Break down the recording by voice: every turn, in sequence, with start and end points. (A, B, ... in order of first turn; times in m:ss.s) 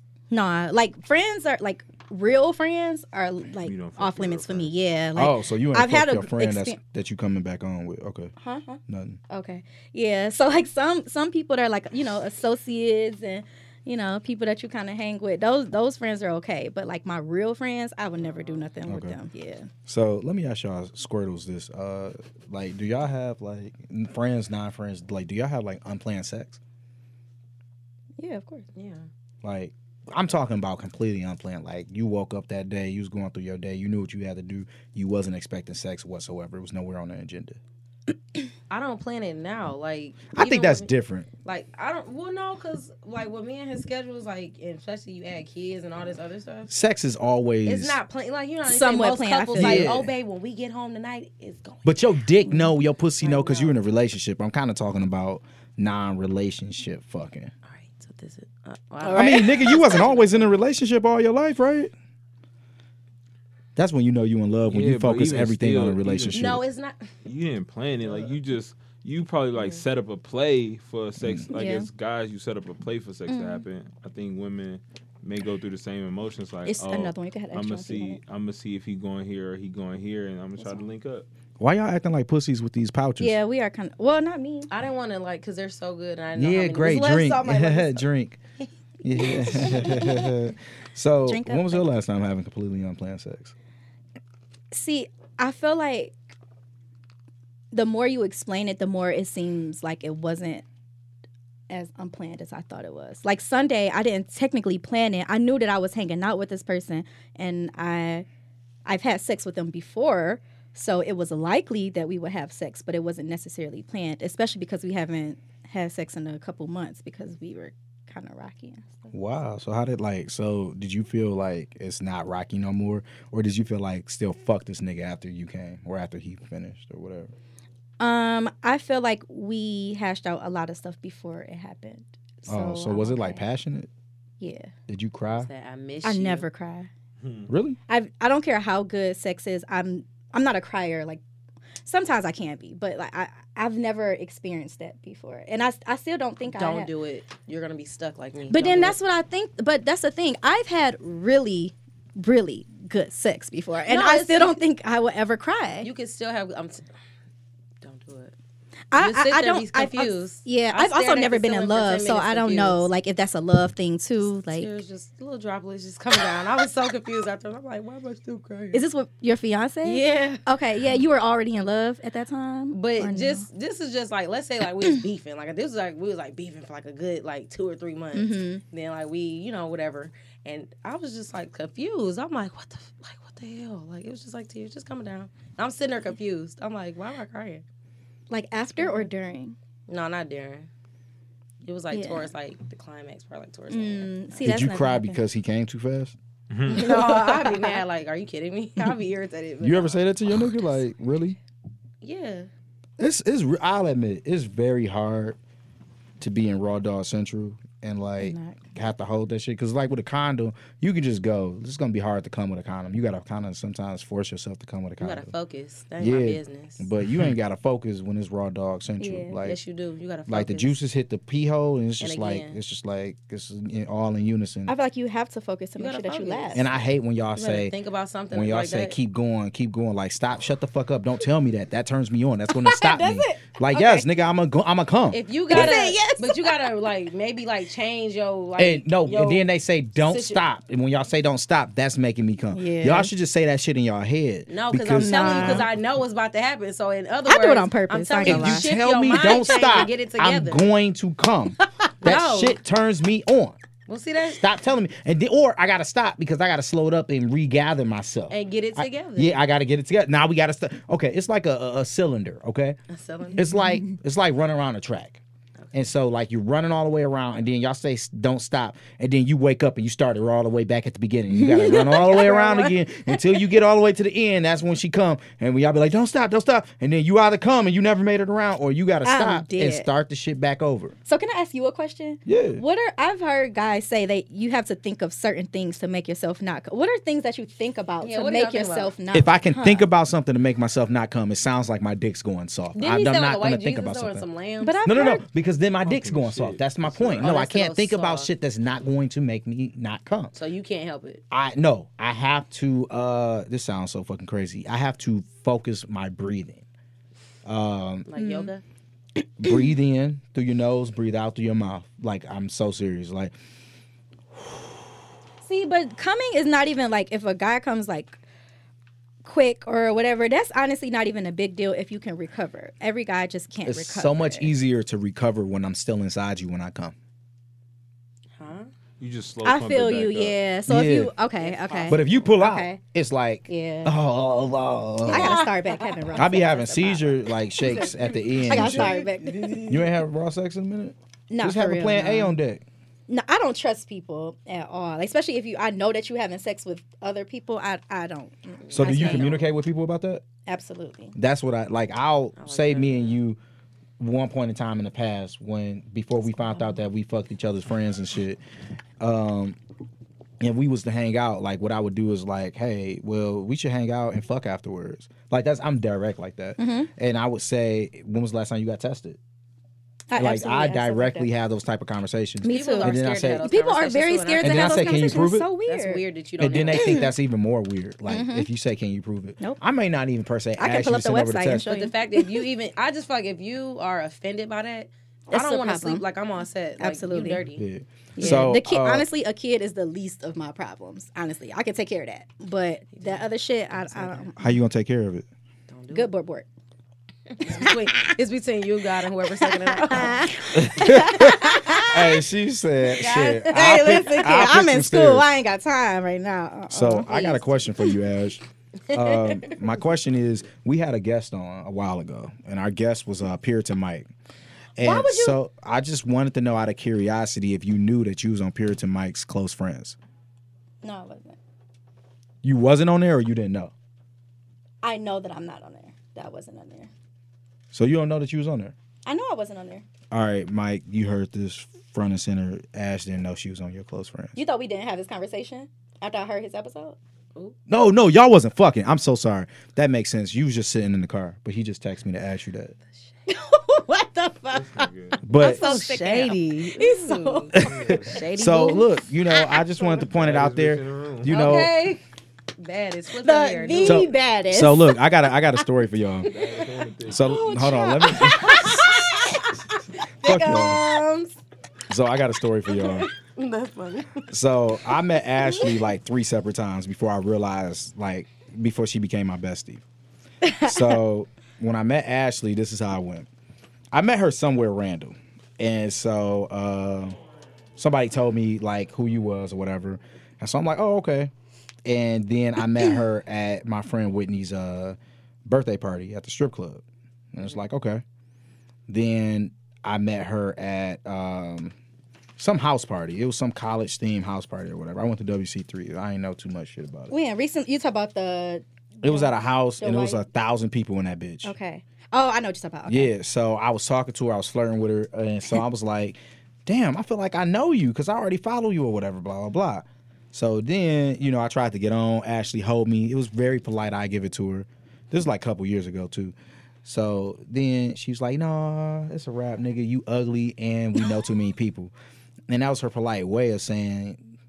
0:00.3-0:06.8 A
0:03.6-0:04.7 B
0:05.1-0:08.3 C
0:08.4-0:19.7 A
0:08.9-0:09.2 C
0:18.2-0:18.7 D
0:18.8-0:19.2 C
0:19.8-0:26.6 C
0:28.2-0:28.7 A
0:28.7-0:29.1 D
0:29.4-0:37.6 C
0:38.7-0:40.9 D
0:40.3-0:41.3 C
0:41.4-0:46.7 D
0:46.7-0:48.0 C
0:47.6-0:52.2 D
0:48.6-0:49.9 A
0:49.5-0:50.1 C
0:51.8-0:57.5 C
0:53.2-0:53.8 D
0:57.6-1:00.5 D
0:59.0-1:00.0 A
0:59.1-1:01.9 C
1:03.8-1:06.6 C
1:04.6-1:06.6 B
1:06.3-1:07.1 D
1:07.2-1:21.3 B
1:09.6-1:09.8 D
1:11.2-1:11.5 C
1:11.5-1:11.9 A
1:13.3-1:13.6 A
1:16.6-1:18.2 A
1:20.6-1:20.9 A
1:21.6-1:23.4 C
1:23.2-1:24.7 A
1:24.7-1:28.0 D
1:26.4-1:28.4 C
1:28.6-1:30.1 D
1:29.0-1:33.5 C
1:29.6-1:30.1 A
1:31.2-1:31.8 A
1:34.7-1:36.2 A
1:37.7-1:40.6 A
1:41.7-1:48.2 A
1:48.8-1:59.1 A
1:59.1-2:07.3 C
2:08.0-2:13.4 A
2:12.5-2:13.9 C
2:14.4-2:14.7 A
2:14.9-2:15.5 C
2:15.4-2:16.4 D
2:16.0-2:16.9 A
2:17.2-2:17.5 B
2:17.5-2:17.8 C
2:17.9-2:21.2 A
2:21.8-2:26.9 A
2:26.5-2:29.0 D
2:28.5-2:35.9 A
2:33.8-2:34.6 D
2:35.8-2:36.8 D
2:37.8-2:38.3 D
2:38.9-2:44.7 A
2:39.0-2:42.9 D
2:44.5-2:48.8 D
2:48.7-2:53.4 A
2:49.8-2:50.4 D
2:52.7-3:07.6 D
2:58.1-2:58.6 A
3:08.3-3:09.6 A
3:08.8-3:09.1 D
3:09.9-3:10.7 D
3:11.6-3:14.5 D
3:11.9-3:12.3 A
3:13.7-3:15.2 A
3:14.4-3:16.2 C
3:16.5-3:16.8 B
3:16.7-3:20.0 D
3:16.7-3:17.8 A
3:19.6-3:21.4 C
3:22.0-3:22.5 D
3:23.0-3:25.4 C
3:26.2-3:35.3 C
3:28.2-3:28.6 A
3:35.0-3:36.9 D
3:36.0-3:39.6 C
3:39.0-3:39.4 A
3:39.4-3:40.8 D
3:40.3-3:44.7 C
3:42.0-3:42.6 D
3:44.7-3:46.6 A
3:45.8-3:49.0 D
3:46.5-3:47.7 C
3:48.3-3:55.7 C
3:52.5-3:54.1 A
3:55.1-3:59.4 D
3:55.5-3:56.7 A
3:58.6-4:05.7 C
4:00.0-4:00.4 D
4:02.5-4:03.1 A
4:04.5-4:10.7 D
4:04.9-4:05.7 A
4:07.2-4:09.9 A
4:08.2-4:13.6 C
4:12.0-4:12.6 D
4:13.9-4:14.4 D
4:14.3-4:22.8 C
4:18.3-4:19.4 D
4:22.9-4:23.5 D
4:23.3-4:25.2 C
4:25.6-4:25.9 D
4:25.7-4:40.9 C
4:31.3-4:33.4 A
4:39.0-4:39.9 A
4:41.0-4:49.9 A
4:42.2-4:42.6 C
4:48.0-4:48.9 D
4:49.1-4:54.2 C
4:52.7-4:54.8 D
4:54.6-4:55.2 A
4:54.8-5:00.3 C
4:55.8-4:57.3 B
4:57.2-4:58.3 D
5:00.3-5:01.2 D
5:01.3-5:06.6 C
5:07.4-5:08.1 C
5:08.1-5:08.6 D
5:08.2-5:08.5 A
5:09.4-5:13.3 C
5:15.4-5:18.2 A
5:19.2-5:24.5 A
5:23.6-5:26.9 C
5:28.4-5:28.7 D
5:29.0-5:30.4 B
5:29.4-5:32.8 A
5:30.7-5:31.1 C
5:31.4-5:32.2 D
5:31.9-5:35.4 C
5:33.5-5:34.0 A
5:35.0-5:36.9 D
5:35.1-5:37.0 A
5:36.2-5:39.0 C
5:37.6-5:39.9 D
5:38.4-5:39.7 A
5:39.7-5:42.6 C
5:41.3-5:42.3 A
5:43.1-5:49.4 A
5:48.6-5:49.5 D
5:48.7-5:50.2 C
5:50.4-5:51.1 A
5:51.2-5:53.4 C
5:52.4-5:53.2 D
5:54.0-5:58.4 C
5:59.0-5:59.6 C
6:00.4-6:09.2 C
6:06.6-6:06.9 A
6:10.1-6:11.3 A
6:10.2-6:13.4 C
6:12.4-6:16.0 A
6:12.4-6:17.0 D
6:14.4-6:15.5 C
6:16.4-6:21.7 C
6:16.7-6:17.1 A
6:18.1-6:18.5 A
6:20.6-6:22.4 A
6:21.6-6:27.6 D
6:25.3-6:26.0 A
6:26.8-6:27.4 A
6:27.6-6:29.0 C
6:28.2-6:34.5 A
6:28.2-6:28.5 D
6:32.9-6:34.3 D
6:34.4-6:35.2 C
6:35.7-6:36.1 D
6:35.9-6:36.5 A
6:37.4-6:40.3 D
6:37.5-6:38.2 A
6:39.3-6:42.2 A
6:40.5-6:45.2 C
6:42.9-6:44.3 D
6:43.4-6:48.0 A
6:46.7-6:48.4 C
6:48.9-6:54.1 C
6:54.8-7:00.0 C
6:54.8-6:55.4 A
7:00.8-7:01.4 A
7:02.4-7:03.7 C
7:04.8-7:06.9 A
7:07.7-7:08.7 C
7:09.0-7:09.8 A
7:10.1-7:14.4 C
7:14.4-7:17.0 A
7:17.7-7:22.7 C
7:23.3-7:29.6 A
7:24.5-7:25.2 B
7:25.2-7:25.7 C
7:25.4-7:28.9 D
7:27.5-7:31.7 C
7:27.6-7:28.2 B
7:29.9-7:31.4 B
7:31.3-7:32.0 D
7:32.6-7:34.1 D
7:33.2-7:35.0 A
7:33.8-7:36.3 C
7:36.3-7:37.3 B
7:37.1-7:38.8 C
7:37.2-7:39.6 A
7:38.5-7:38.9 D
7:40.2-7:41.4 A
7:40.2-7:40.8 C
7:41.9-7:43.1 C
7:42.8-7:44.3 D
7:44.3-7:49.8 C
7:50.4-7:51.0 A
7:50.6-7:53.3 C
7:53.9-7:57.2 C
7:57.8-8:01.3 C
8:01.8-8:08.0 C
8:08.9-8:11.7 C
8:12.4-8:17.1 C
8:17.1-8:20.2 A
8:19.0-8:21.5 C
8:21.4-8:23.1 A
8:22.9-8:41.9 C
8:42.5-8:44.2 C